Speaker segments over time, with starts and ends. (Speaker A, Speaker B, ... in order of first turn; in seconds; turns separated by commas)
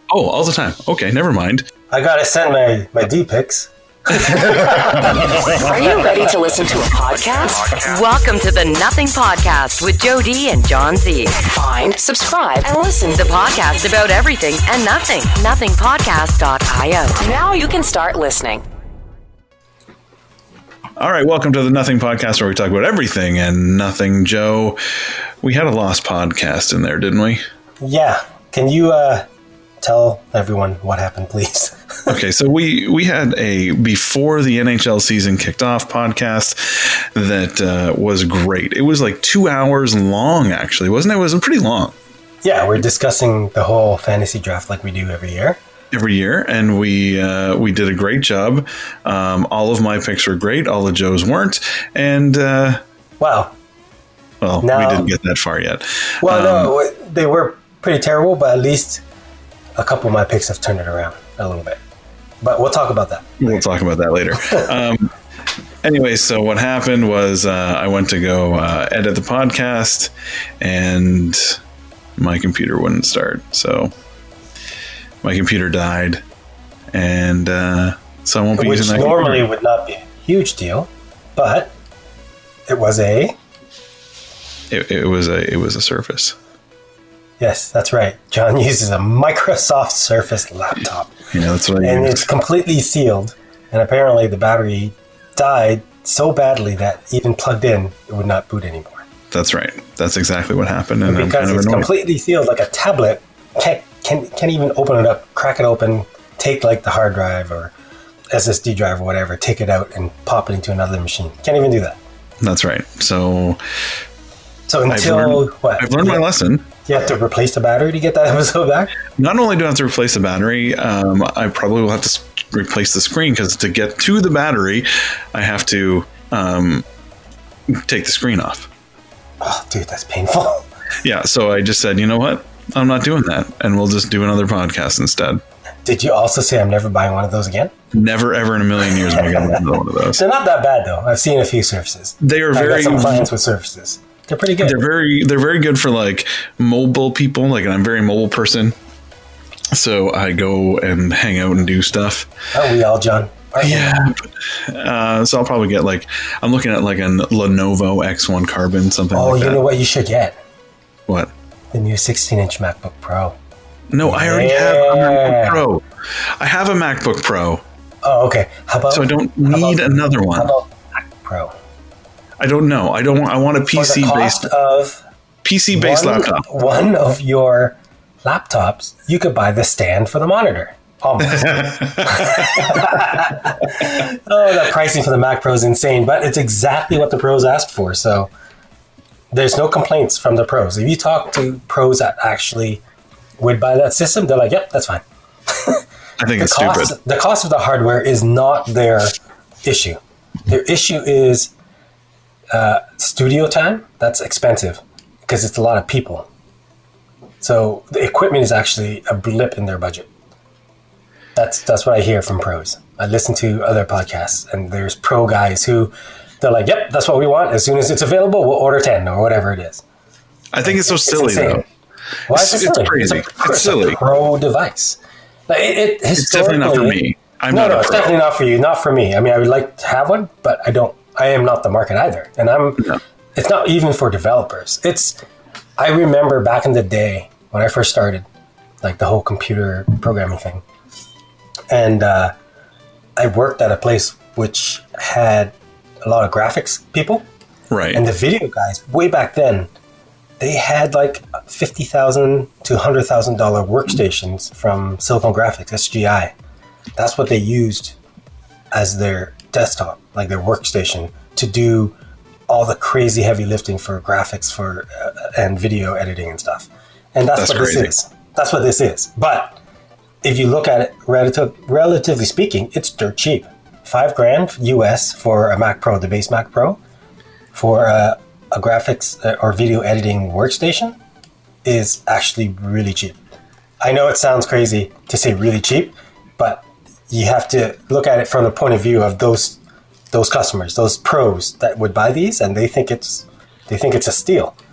Speaker A: 0.1-1.7, Speaker B: 1.9-5.3, Speaker A: 4.2-4.8, Speaker C: 5.5-7.7, Speaker D: 7.8-11.4, Speaker C: 11.4-13.3, Speaker D: 13.1-17.2, Speaker C: 17.2-18.6, Speaker A: 21.0-24.8, Speaker A: 25.4-27.4, Speaker B: 27.8-29.2, Speaker B: 29.8-32.1, Speaker A: 32.1-41.9, Speaker B: 42.4-45.6, Speaker A: 45.9-52.8, Speaker B: 53.2-53.5, Speaker A: 54.4-56.7, Speaker B: 54.6-55.1, Speaker B: 56.2-59.0, Speaker B: 59.8-61.8, Speaker B: 62.4-63.6, Speaker A: 63.4-65.1, Speaker A: 65.8-71.6, Speaker A: 72.2-73.9, Speaker A: 75.2-76.2, Speaker A: 76.9-79.5, Speaker B: 78.6-81.7, Speaker B: 82.7-83.3, Speaker A: 84.7-86.3, Speaker B: 87.4-91.1, Speaker A: 91.3-92.2, Speaker B: 91.8-99.0, Speaker A: 99.3-101.9, Speaker B: 101.0-107.7, Speaker B: 108.3-112.0, Speaker A: 112.4-113.6, Speaker B: 114.7-116.2, Speaker A: 114.9-116.7, Speaker B: 116.8-119.0, Speaker A: 119.2-126.8, Speaker A: 127.7-128.7, Speaker B: 129.4-130.6, Speaker A: 131.0-135.4, Speaker B: 135.8-137.7, Speaker A: 137.9-140.2, Speaker B: 139.1-144.8, Speaker A: 142.2-143.3, Speaker A: 144.6-148.7, Speaker A: 149.7-152.3, Speaker B: 152.5-154.0, Speaker A: 153.6-159.6, Speaker B: 159.1-160.3, Speaker B: 161.7-163.3, Speaker A: 163.9-165.8, Speaker B: 164.0-165.6, Speaker A: 166.4-167.6, Speaker B: 168.0-171.5, Speaker A: 168.9-170.5, Speaker A: 172.4-174.5, Speaker B: 173.7-175.0, Speaker A: 175.4-176.4, Speaker B: 175.7-188.3, Speaker A: 182.0-182.8, Speaker B: 189.3-192.8, Speaker B: 193.4-195.8, Speaker A: 196.2-196.9, Speaker B: 196.4-201.5, Speaker B: 202.5-206.3, Speaker B: 207.4-210.1, Speaker B: 211.3-219.8, Speaker A: 220.5-221.6, Speaker B: 220.6-221.6, Speaker B: 222.3-225.0, Speaker A: 222.3-224.0, Speaker B: 225.5-235.2, Speaker A: 226.2-228.1, Speaker B: 235.8-238.2, Speaker B: 238.8-240.6, Speaker B: 241.7-242.3, Speaker B: 243.2-247.2, Speaker A: 247.7-248.0, Speaker B: 247.9-249.7, Speaker B: 250.4-256.3, Speaker B: 257.0-257.9, Speaker B: 258.7-261.9, Speaker B: 262.5-269.6, Speaker A: 267.4-267.9, Speaker B: 270.2-276.8, Speaker B: 277.5-281.0, Speaker B: 281.6-283.2, Speaker B: 283.8-289.6, Speaker B: 290.1-294.5